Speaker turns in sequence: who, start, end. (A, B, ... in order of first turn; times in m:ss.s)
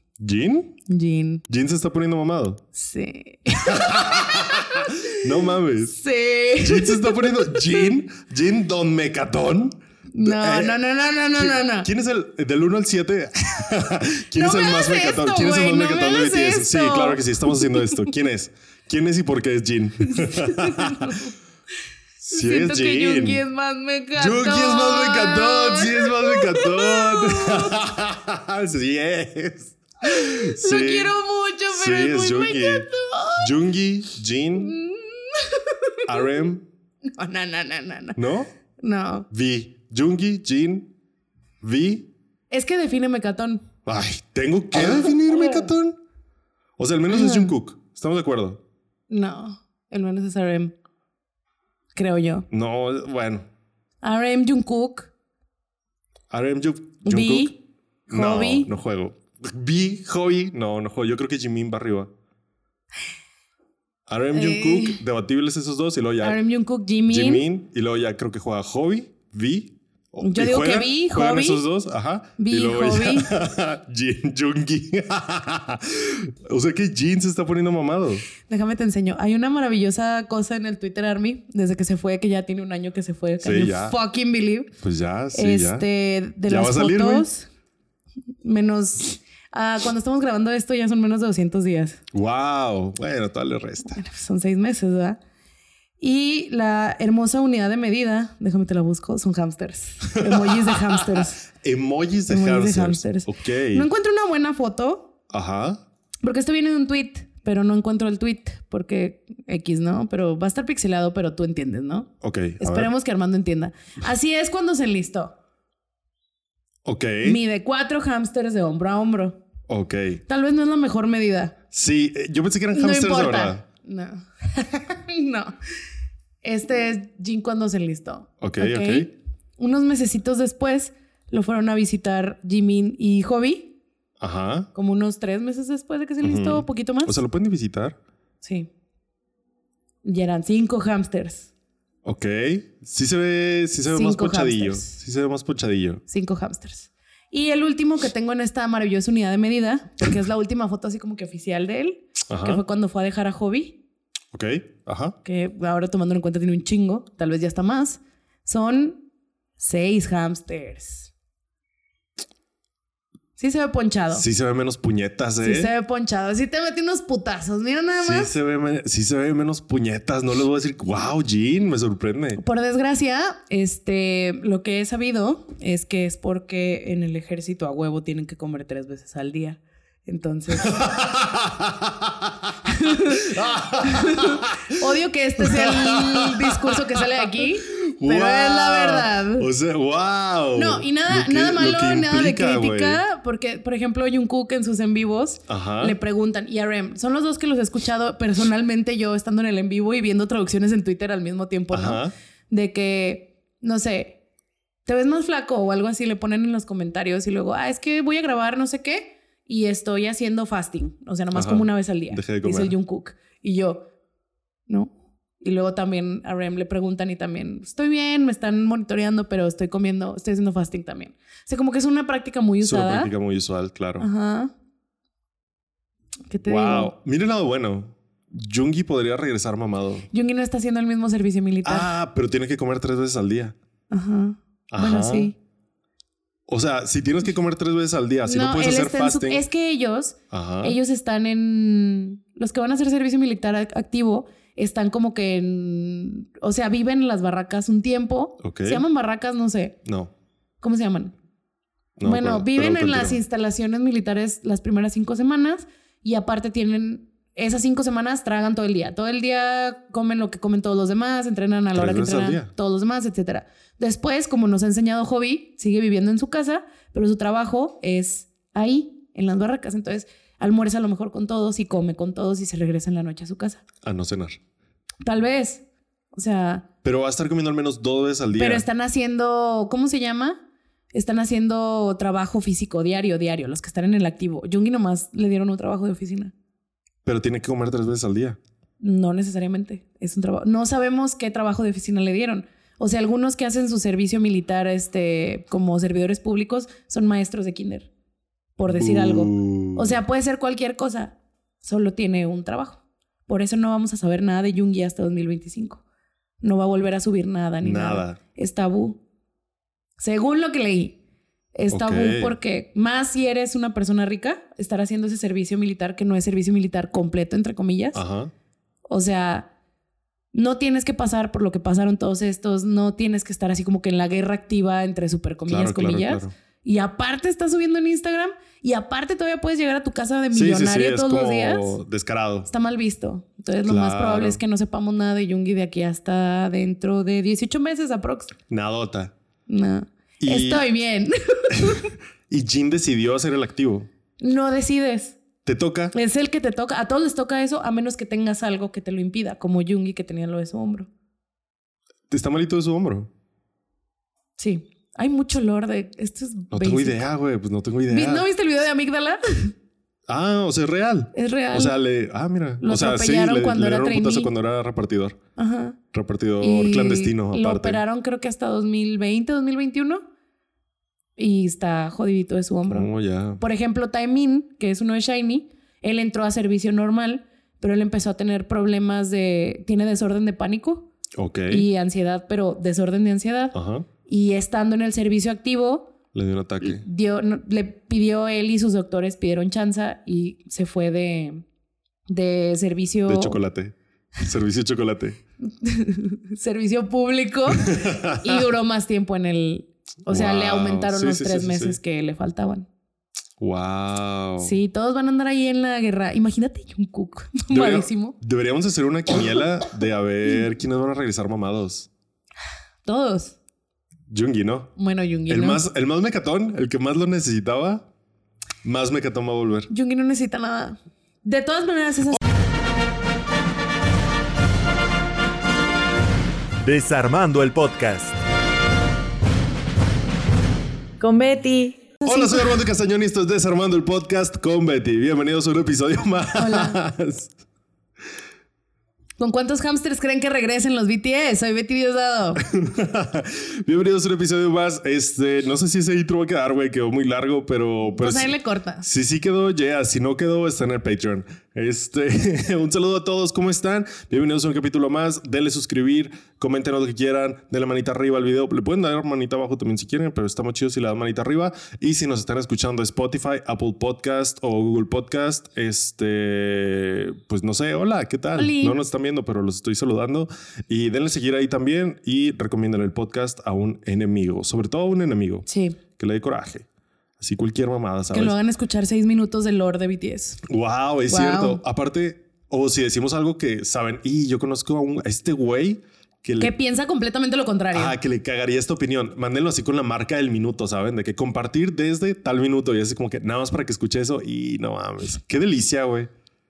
0:00.2-0:00.8 A
0:00.9-0:01.4 B
0:01.5-0:02.6 A
0:02.7-0:07.8 B
0:03.6-0:06.0 A
0:06.6-0:10.8 A
0:10.1-0:11.9 B
0:11.4-0:21.2 A
0:14.3-0:18.0 B
0:20.0-0:21.3 B
0:22.2-0:23.4 A
0:22.3-0:27.8 B
0:24.2-0:31.1 A
0:30.0-0:33.5 B
0:31.7-0:32.9 A
0:33.4-0:34.7 A
0:34.6-0:36.2 B
0:36.0-0:36.6 A
0:37.1-0:38.2 B
0:38.2-0:38.5 A
0:38.8-0:39.3 B
0:39.3-0:40.9 A
0:41.6-0:42.1 A
0:42.5-0:43.6 B
0:43.8-0:46.0 A
0:44.8-0:45.7 B
0:46.8-0:48.6 A
0:47.1-0:47.5 B
0:49.1-0:50.7 B
0:51.9-0:52.5 B
0:52.5-0:53.4 A
0:54.0-0:55.1 B
0:56.3-0:57.5 A
0:57.0-0:57.5 B
0:58.1-1:02.1 A
0:58.1-0:58.7 B
1:04.1-1:06.4 A
1:04.3-1:05.0 B
1:06.2-1:07.4 B
1:07.1-1:18.2 A
1:10.2-1:11.6 B
1:12.4-1:13.3 B
1:18.5-1:24.7 B
1:23.4-1:23.9 A
1:24.8-1:25.8 A
1:25.3-1:27.5 B
1:26.5-1:27.3 A
1:28.4-1:32.0 B
1:32.1-1:34.0 A
1:33.8-1:35.2 B
1:36.0-1:41.4 B
1:40.1-1:43.9 A
1:42.3-1:45.1 B
1:45.3-1:45.8 A
1:46.2-1:52.1 B
1:52.2-1:52.9 A
1:52.6-1:55.3 B
1:56.8-1:57.4 A
1:57.2-1:59.4 B
1:59.7-2:00.2 A
2:00.3-2:01.5 B
2:01.7-2:03.6 A
2:02.7-2:05.5 B
2:06.4-2:13.7 B
2:08.4-2:09.1 A
2:14.2-2:14.7 A
2:14.7-2:17.1 B
2:16.2-2:18.0 A
2:18.4-2:18.7 B
2:20.0-2:21.5 B
2:22.0-2:26.0 A
2:23.9-2:25.0 B
2:26.1-2:33.8 B
2:32.3-2:32.6 A
2:34.3-2:35.2 A
2:35.2-2:39.0 B
2:39.6-2:41.1 B
2:43.4-2:44.2 B
2:44.1-2:45.7 A
2:45.4-2:48.3 B
2:48.0-2:52.4 A
2:52.4-3:00.8 B
3:00.6-3:02.3 A
3:02.6-3:09.5 B
3:03.2-3:04.6 A
3:05.4-3:13.0 A
3:10.5-3:24.2 B
3:15.5-3:16.0 A
3:21.7-3:22.1 A
3:24.8-3:33.8 B
3:31.3-3:32.8 A
3:34.7-3:43.1 B
3:42.6-3:44.1 A
3:44.0-3:44.5 B
3:46.3-3:46.9 B
3:46.4-3:50.1 A
3:50.1-3:51.9 B
3:51.6-3:53.6 A
3:53.9-3:55.3 B
3:54.7-3:55.3 A
3:56.5-3:59.4 A
3:58.2-4:09.8 B
4:00.3-4:00.8 A
4:08.4-4:08.8 A
4:09.8-4:10.1 A
4:10.6-4:11.1 B
4:12.0-4:13.2 A
4:12.0-4:33.6 B
4:21.7-4:22.5 A
4:33.8-4:34.4 A
4:35.0-4:36.6 B
4:36.8-4:38.6 A
4:38.4-4:40.4 B
4:40.9-4:46.3 B
4:47.0-4:48.4 A
4:48.8-4:57.9 B
4:58.6-5:05.8 B
4:58.7-5:00.0 A
5:06.4-5:09.0 B
5:07.6-5:08.2 A
5:10.0-5:11.0 B
5:11.5-5:18.0 B
5:11.7-5:12.4 A
5:17.9-5:18.3 A
5:18.9-5:19.5 B
5:20.3-5:31.7 B
5:25.5-5:26.3 A
5:30.3-5:32.5 A
5:32.5-5:38.3 B
5:33.6-5:34.4 A
5:38.5-5:39.1 A
5:39.5-5:41.9 B
5:40.2-5:40.6 A
5:41.5-5:43.9 A
5:44.2-5:45.2 B
5:45.4-5:45.9 A
5:45.9-5:50.9 B
5:52.1-5:53.1 A
5:54.4-5:57.1 B
5:56.5-5:58.3 A
5:57.9-5:59.5 B
6:00.1-6:05.2 A
6:01.1-6:01.7 B
6:02.6-6:04.3 B
6:05.4-6:05.8 B
6:05.9-6:07.8 A
6:06.4-6:10.0 B
6:11.2-6:20.9 B
6:12.7-6:13.4 A
6:21.2-6:21.6 A
6:21.5-6:25.9 B
6:23.5-6:23.9 A
6:26.1-6:26.8 A
6:26.6-6:31.4 B
6:32.1-6:33.4 B
6:33.1-6:35.2 A
6:35.5-6:42.7 B
6:37.6-6:38.3 A
6:40.1-6:41.8 A
6:43.4-6:44.6 A
6:44.4-6:48.1 B
6:47.5-6:51.9 A
6:52.8-6:53.4 B
6:54.1-6:54.7 A
6:54.8-6:55.6 B
6:55.3-6:57.9 A
6:58.6-6:59.7 A
6:59.7-7:02.2 B
7:06.6-7:08.1 A
7:11.0-7:12.5 B
7:12.0-7:17.3 A
7:16.4-7:16.8 B
7:19.2-7:22.4 B
7:22.4-7:55.4 A
7:27.8-7:28.8 B
7:48.4-7:48.8 B
7:55.5-7:55.8 B
7:56.0-7:56.6 A
7:57.2-7:58.4 A
7:58.1-8:00.4 B
8:00.4-8:06.5 A
8:01.1-8:01.6 B
8:06.4-8:08.0 B
8:07.7-8:16.1 A